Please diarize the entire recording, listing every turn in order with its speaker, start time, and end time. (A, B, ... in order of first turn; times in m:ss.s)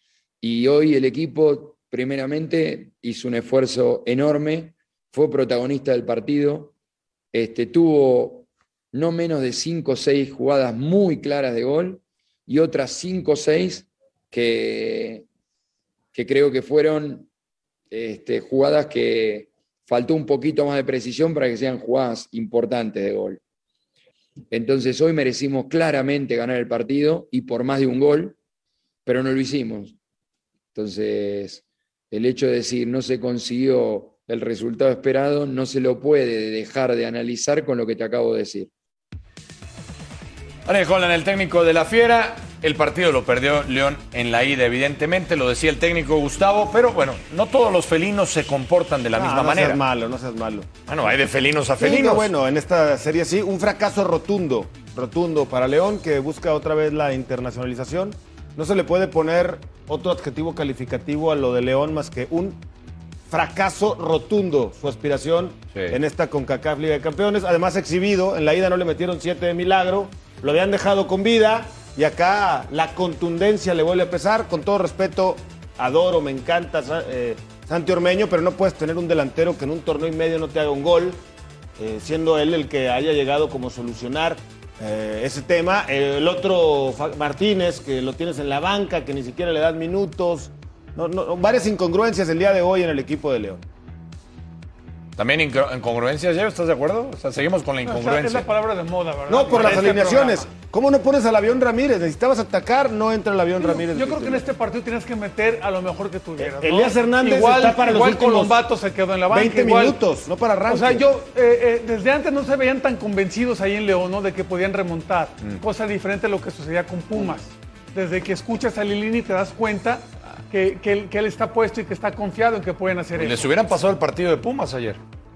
0:00.4-0:06.7 A
0:07.3-0:15.3 A
0:16.1-0:17.3 A
0:17.9-0:23.4 A
0:24.5-0:28.4 A
0:29.0-0:30.0 A
0:30.7-0:38.7 A
0:40.7-0:49.8 B
0:49.1-0:50.7 C
0:50.9-0:52.3 B
0:51.8-1:02.6 C
1:03.3-1:21.2 C
1:21.8-1:33.6 C
1:35.2-1:38.5 B
1:37.8-1:40.5 D
1:39.3-1:44.4 C
1:43.6-1:50.0 D
1:46.4-1:48.6 C
1:49.3-1:51.0 C
1:50.7-2:03.5 D
2:03.2-2:05.0 B